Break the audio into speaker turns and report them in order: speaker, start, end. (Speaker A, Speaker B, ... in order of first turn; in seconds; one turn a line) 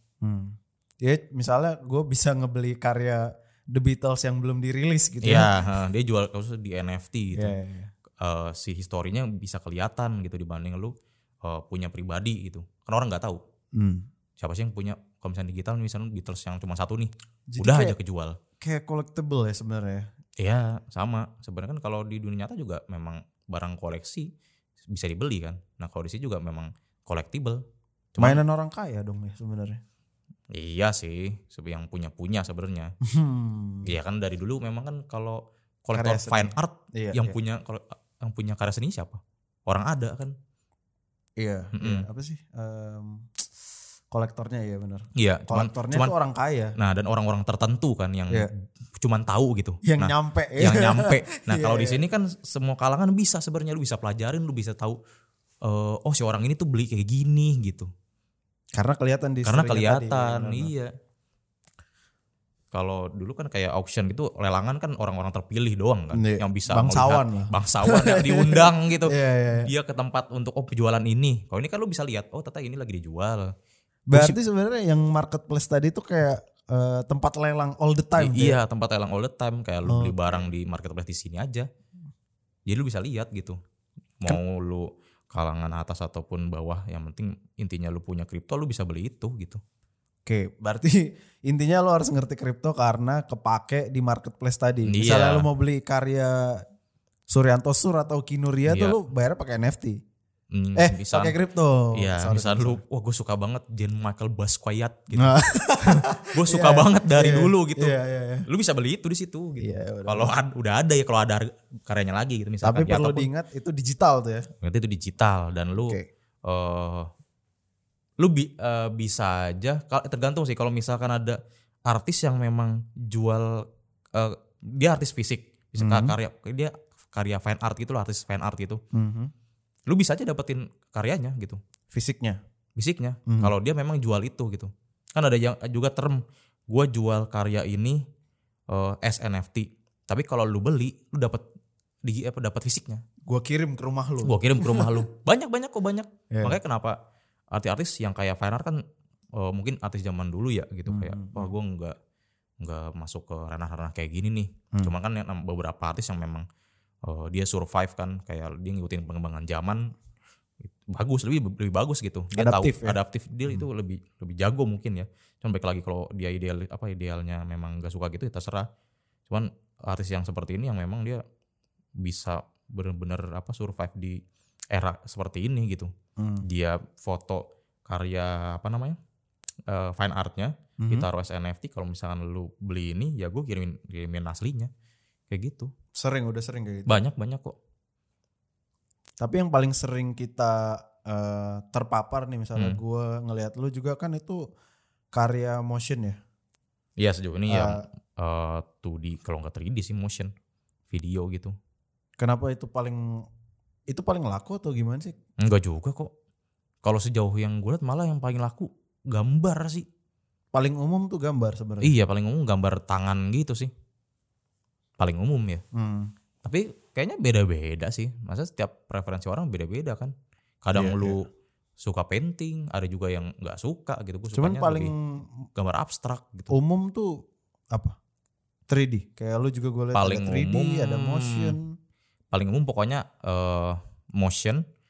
Speaker A: 0.2-5.5
Speaker B: 5.2-7.5
Speaker A: 7.3-7.9
Speaker B: 8.2-13.4
Speaker A: 13.8-14.1
Speaker B: 14.4-18.4
Speaker A: 17.5-18.0
Speaker A: 18.6-20.1
Speaker B: 20.4-24.3
Speaker B: 24.9-27.6
Speaker B: 28.1-28.4
Speaker A: 28.2-29.8
Speaker B: 30.5-32.9
Speaker A: 33.0-33.9
Speaker B: 33.8-40.3
Speaker A: 36.0-37.4
Speaker A: 41.4-43.4
Speaker B: 41.8-42.1
Speaker A: 44.1-46.8
Speaker B: 45.2-46.1
Speaker B: 46.8-55.0
Speaker A: 49.8-52.0
Speaker B: 55.6-57.9
Speaker A: 58.7-60.7
Speaker B: 59.4-60.9
Speaker B: 62.7-73.5
Speaker A: 66.1-69.7
Speaker A: 74.1-78.6
Speaker B: 74.1-74.4
Speaker B: 78.2-81.7
Speaker A: 79.9-80.5
Speaker B: 82.7-83.6
Speaker B: 84.2-89.6
Speaker A: 90.3-96.6
Speaker B: 94.9-95.5
Speaker A: 97.3-100.0
Speaker B: 98.7-99.0
Speaker B: 100.5-101.3
Speaker A: 100.8-102.8
Speaker B: 101.9-108.0
Speaker A: 105.2-108.5
Speaker B: 108.5-113.3
Speaker A: 109.6-110.3
Speaker A: 112.6-114.5
Speaker B: 114.6-117.1
Speaker B: 118.2-123.6
Speaker B: 124.2-128.8
Speaker A: 125.8-126.2
Speaker A: 128.9-129.3
Speaker B: 129.9-131.6
Speaker A: 131.9-132.4
Speaker B: 132.8-138.0
Speaker A: 133.3-133.5
Speaker B: 138.7-141.4
Speaker B: 142.1-143.0
Speaker A: 143.3-145.1
Speaker B: 144.2-147.0
Speaker A: 146.3-146.6
Speaker B: 147.5-148.8
Speaker B: 149.4-151.9
Speaker A: 150.9-151.5
Speaker B: 152.6-156.4
Speaker B: 157.0-159.9
Speaker B: 160.9-168.7
Speaker A: 162.4-163.7
Speaker B: 169.3-171.2
Speaker B: 172.0-174.2
Speaker B: 174.7-179.0
Speaker A: 176.2-176.4
Speaker B: 179.7-184.7
Speaker A: 180.8-181.1
Speaker B: 185.3-185.7
Speaker A: 185.9-187.0
Speaker B: 186.9-187.6
Speaker A: 189.2-194.4
Speaker A: 195.1-196.2
Speaker B: 197.0-200.3
Speaker A: 197.5-197.8
Speaker B: 200.9-201.6
Speaker A: 202.2-203.3
Speaker A: 203.9-205.2
Speaker B: 205.4-206.1
Speaker B: 206.8-209.9
Speaker A: 210.5-211.9
Speaker B: 211.8-213.7
Speaker B: 215.0-215.6
Speaker A: 215.7-216.1
Speaker B: 216.4-220.1
Speaker B: 220.6-221.3
Speaker A: 220.8-221.2
Speaker B: 221.8-224.9
Speaker A: 224.3-225.3
Speaker B: 225.6-226.6
Speaker A: 226.5-227.2
Speaker A: 228.7-231.7
Speaker B: 229.9-231.6
Speaker B: 232.3-234.7